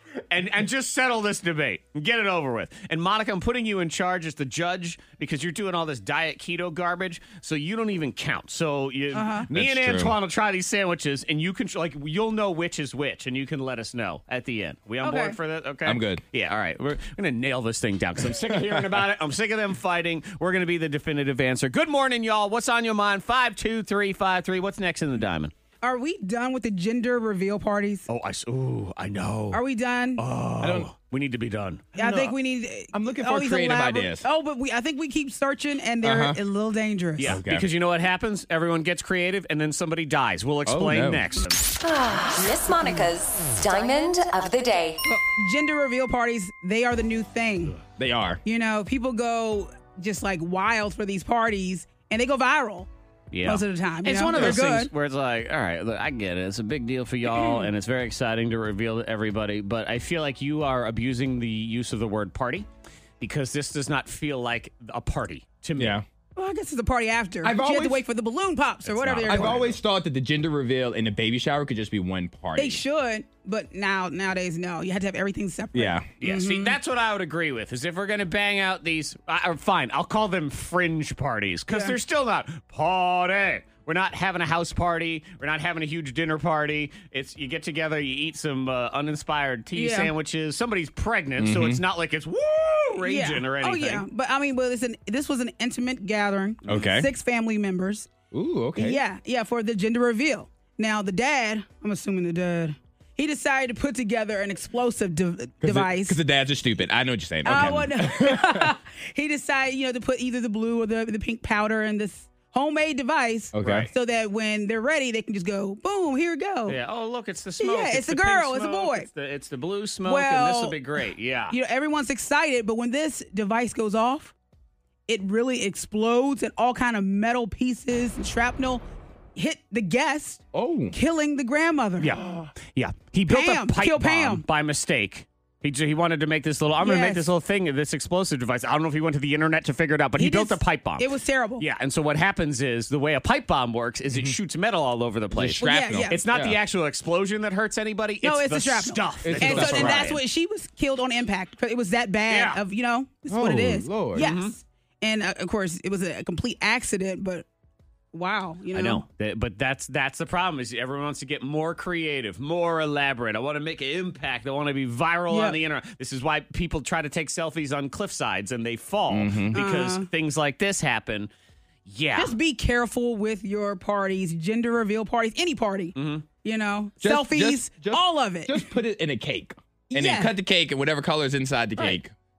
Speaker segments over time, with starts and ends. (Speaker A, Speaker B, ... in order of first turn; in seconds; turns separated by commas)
Speaker A: 0.3-25.5, Speaker B: 9.1-9.5, Speaker C: 9.5-10.2, Speaker B: 15.0-15.4, Speaker C: 15.8-16.2, Speaker C: 18.5-19.0, Speaker B: 25.8-28.1, Speaker A: 28.1-29.6, Speaker B: 29.5-30.2, Speaker A: 30.2-31.9, Speaker C: 30.6-30.9, Speaker C: 31.9-32.4, Speaker B: 32.0-37.4, Speaker C: 32.9-34.3, Speaker C: 36.0-36.4, Speaker A: 37.2-41.6, Speaker C: 37.2-37.7, Speaker C: 40.7-41.2, Speaker D: 41.8-45.0, Speaker B: 45.0-47.8, Speaker C: 47.9-48.4, Speaker B: 48.5-52.9, Speaker A: 53.3-62.7, Speaker B: 53.4-54.9, Speaker C: 54.3-54.6, Speaker B: 57.3-57.7, Speaker A: 63.2-66.0, Speaker C: 65.8-66.0, Speaker B: 66.4-69.8, Speaker C: 67.4-68.0, Speaker A: 68.8-69.8, Speaker C: 69.2-72.8, Speaker B: 72.6-76.8, Speaker C: 75.7-76.1, Speaker A: 76.2-94.0, Speaker B: 81.7-82.0, Speaker B: 89.8-90.1, Speaker C: 91.4-91.8, Speaker B: 92.9-98.1, Speaker C: 96.7-97.1, Speaker C: 98.3-99.0, Speaker B: 98.8-106.2, Speaker C: 105.6-108.7, Speaker B: 107.5-116.8, Speaker C: 113.5-113.9, Speaker A: 113.6-113.9, Speaker A: 116.7-121.6, Speaker B: 117.6-119.1, Speaker B: 120.0-120.8, Speaker B: 121.5-124.3, Speaker B: 125.1-128.8, Speaker B: 129.3-132.2, Speaker C: 130.5-131.0, Speaker A: 132.0-141.1, Speaker C: 132.2-132.5, Speaker B: 133.3-134.4, Speaker B: 136.8-137.3, Speaker B: 140.2-141.7, Speaker A: 141.6-150.2, Speaker C: 144.1-144.4, Speaker C: 145.3-146.6, Speaker B: 145.6-146.2, Speaker B: 148.2-157.5, Speaker C: 149.2-150.1, Speaker A: 152.3-152.6, Speaker C: 153.3-154.3, Speaker A: 154.1-154.6, Speaker B: 158.1-159.0, Speaker A: 158.7-171.3, Speaker B: 165.3-165.6, Speaker C: 169.1-169.6, Speaker B: 169.5-170.1, Speaker A: 171.8-172.4, Speaker B: 172.2-178.6, Speaker A: 175.9-176.2, Speaker C: 177.0-182.1, Speaker B: 179.9-180.3